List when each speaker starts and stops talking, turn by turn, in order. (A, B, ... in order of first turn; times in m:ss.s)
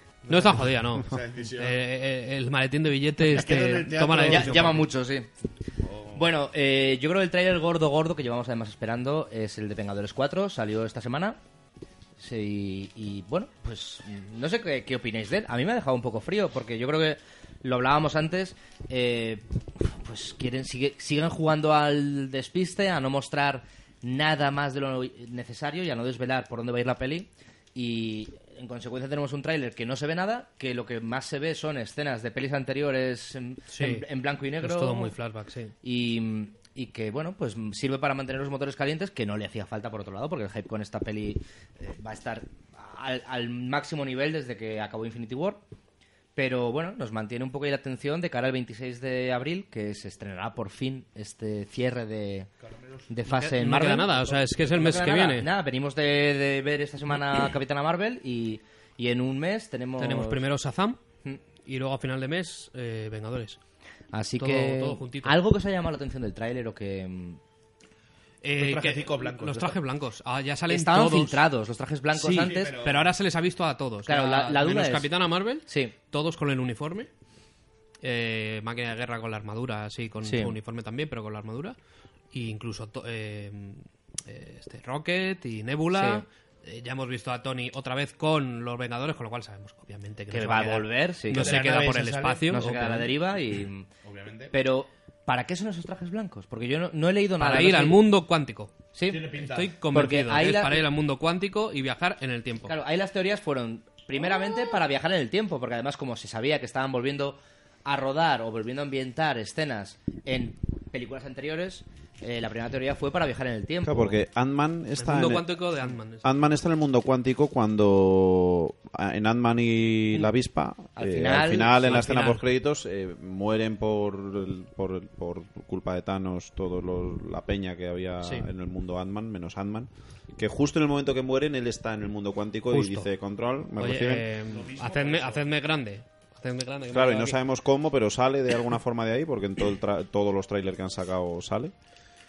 0:00.3-0:04.9 A
0:01.0-0:01.8 B
0:03.2-0:04.8 B
0:04.2-0:05.3 C
0:05.8-0:06.3 B
0:06.1-0:11.4 C
0:12.2-0:35.1 C
0:33.7-0:34.1 A
0:34.6-0:35.7 A
0:35.8-0:45.6 C
0:46.4-0:52.5 C
0:52.6-0:53.1 B
0:53.1-1:00.4 C
0:53.3-0:55.5 A
0:54.0-0:54.8 B
1:00.0-1:01.0 A
1:01.6-1:03.6 A
1:04.1-1:07.4 C
1:04.4-1:05.4 A
1:08.4-1:11.5 A
1:08.6-1:09.8 B
1:10.7-1:12.8 C
1:12.2-1:17.1 A
1:12.3-1:13.1 B
1:14.1-1:15.1 C
1:15.7-1:15.9 C
1:18.0-1:21.8 A
1:20.2-1:20.6 C
1:22.3-1:33.1 A
1:25.9-1:26.2 C
1:30.3-1:31.6 C
1:31.3-1:32.7 B
1:32.5-1:33.9 C
1:34.0-1:34.5 B
1:34.5-1:38.0 C
1:37.4-1:38.8 A
1:39.0-1:39.3 C
1:39.1-1:39.8 B
1:39.3-1:42.7 A
1:39.9-1:40.9 C
1:42.7-1:54.2 C
1:53.8-2:14.3 D
1:55.0-1:56.3 A
2:01.0-2:02.4 C
2:01.9-2:02.4 A
2:12.7-2:13.1 A
2:13.8-2:17.4 A
2:14.4-2:15.5 B
2:16.9-2:21.7 D